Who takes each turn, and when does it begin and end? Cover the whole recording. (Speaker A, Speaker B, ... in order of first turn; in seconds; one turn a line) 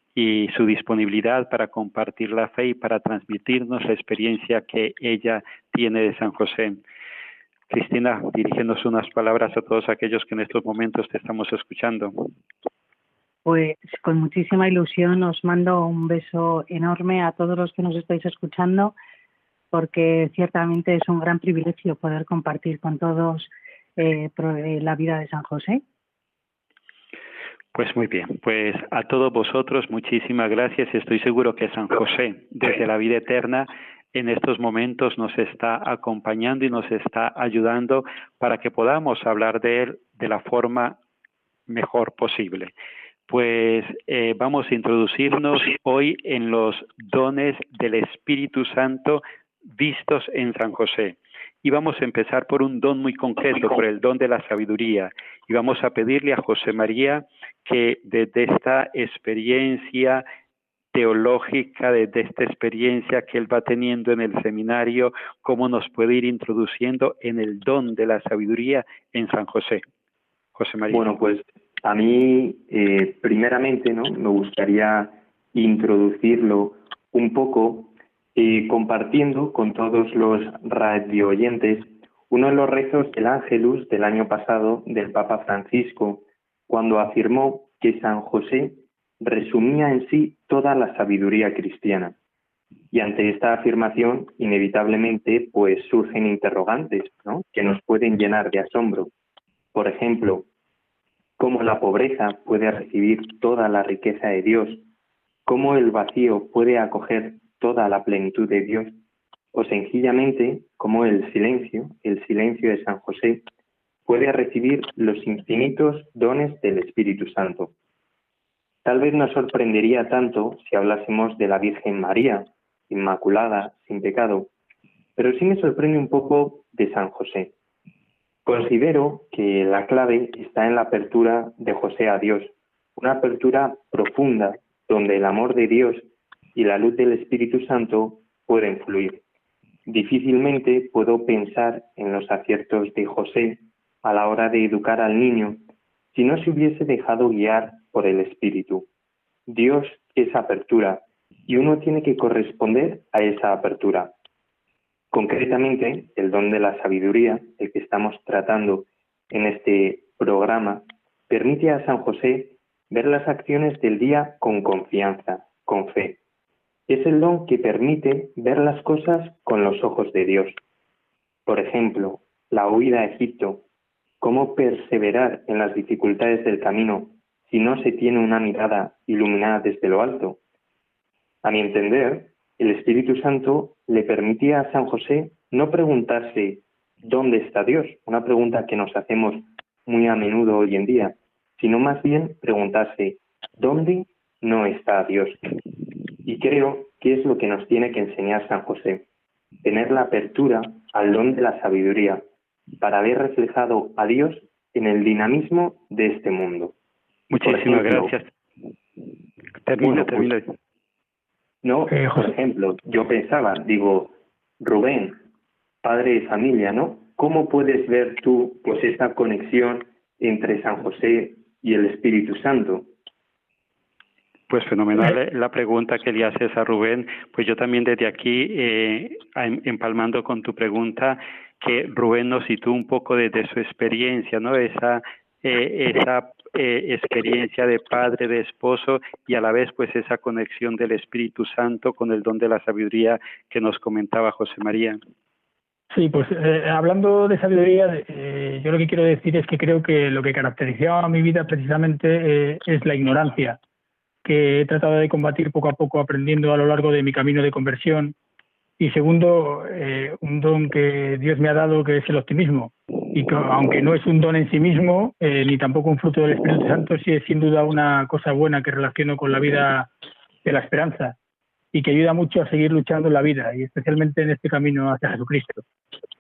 Speaker A: 0.1-6.8
Speaker A: 7.7-12.3
Speaker B: 13.4-18.9
Speaker B: 19.7-25.8
Speaker A: 27.7-41.0
Speaker A: 41.7-42.7
Speaker A: 43.3-49.2
Speaker A: 49.7-60.2
Speaker A: 60.9-69.8
Speaker A: 70.6-71.1
Speaker C: 70.9-92.2
Speaker C: 92.9-99.1
Speaker C: 99.7-100.5
Speaker C: 101.4-104.8
Speaker C: 105.5-109.0
Speaker C: 109.5-113.5
Speaker C: 114.1-117.7
Speaker C: 118.8-124.5
Speaker C: 125.2-127.5
Speaker C: 128.5-139.2
Speaker C: 139.9-148.9
Speaker C: 149.5-154.2
Speaker C: 155.1-166.2
Speaker C: 166.9-170.6
Speaker C: 171.5-173.7
Speaker C: 174.2-180.4
Speaker C: 181.4-195.4
Speaker C: 196.2-199.1
Speaker C: 199.6-202.3
Speaker C: 202.8-206.8
Speaker A: 207.3-208.3
Speaker C: 207.4-208.1
Speaker A: 209.7-210.5
Speaker C: 209.8-210.3
Speaker C: 211.6-215.2
Speaker D: 211.9-212.3
Speaker C: 215.8-222.9
Speaker A: 224.5-245.0
Speaker D: 245.9-253.6
Speaker D: 254.2-258.2
Speaker D: 258.8-269.9
Speaker D: 270.4-271.2
Speaker D: 271.7-275.6